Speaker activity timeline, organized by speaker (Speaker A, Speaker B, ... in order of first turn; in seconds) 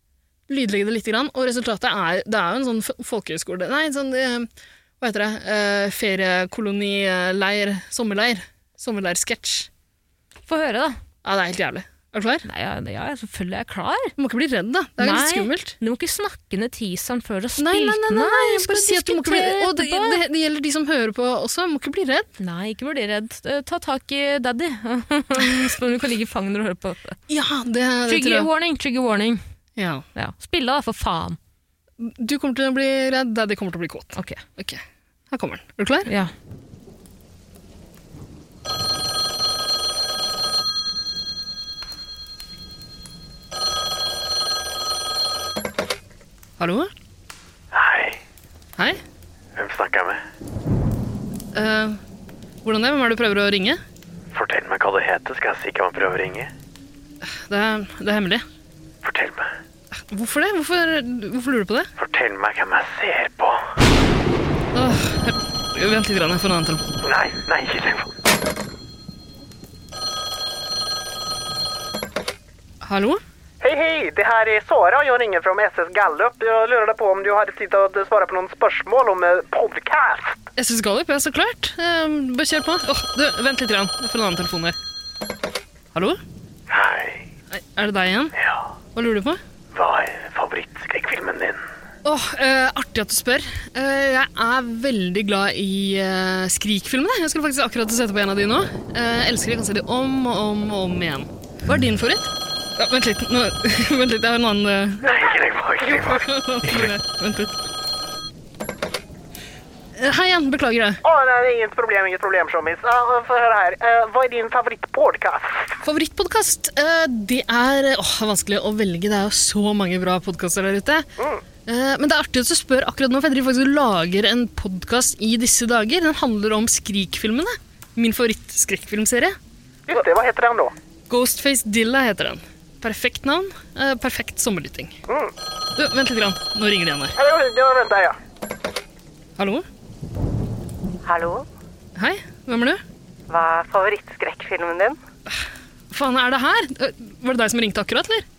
Speaker A: 0.5-9.7, 11.2-12.4, 14.2-15.8, 17.6-22.3, 27.3-28.5, 29.8-30.1, 32.0-36.1, 46.6-46.9, 51.5-52.0, 52.6-53.8, 57.2-58.5, 60.0-61.9, 64.7-66.9, 72.8-73.2, 80.5-84.8, 85.9-86.2, 87.5-88.3, 88.9-89.4, 92.0-105.2, 106.0-107.6, 109.9-111.0, 115.8-121.1, 121.6-129.4, 131.1-135.0, 135.8-137.1, 139.4-139.7, 141.9-142.8, 145.3-148.2
Speaker B: 10.5-11.0, 12.4-14.1, 15.0-20.2, 22.4-27.2, 28.1-29.4, 30.1-31.4, 34.1-34.4, 36.0-36.3
Speaker C: 47.7-48.2, 49.5-50.2, 54.3-56.5, 59.0-59.6, 62.0-63.7, 67.0-68.1, 86.7-87.3, 88.3-88.7, 89.7-91.6, 105.0-106.9
Speaker D: 73.6-80.4, 111.0-115.7, 129.9-130.7, 137.2-138.2
Speaker E: 141.0-141.4, 143.3-145.0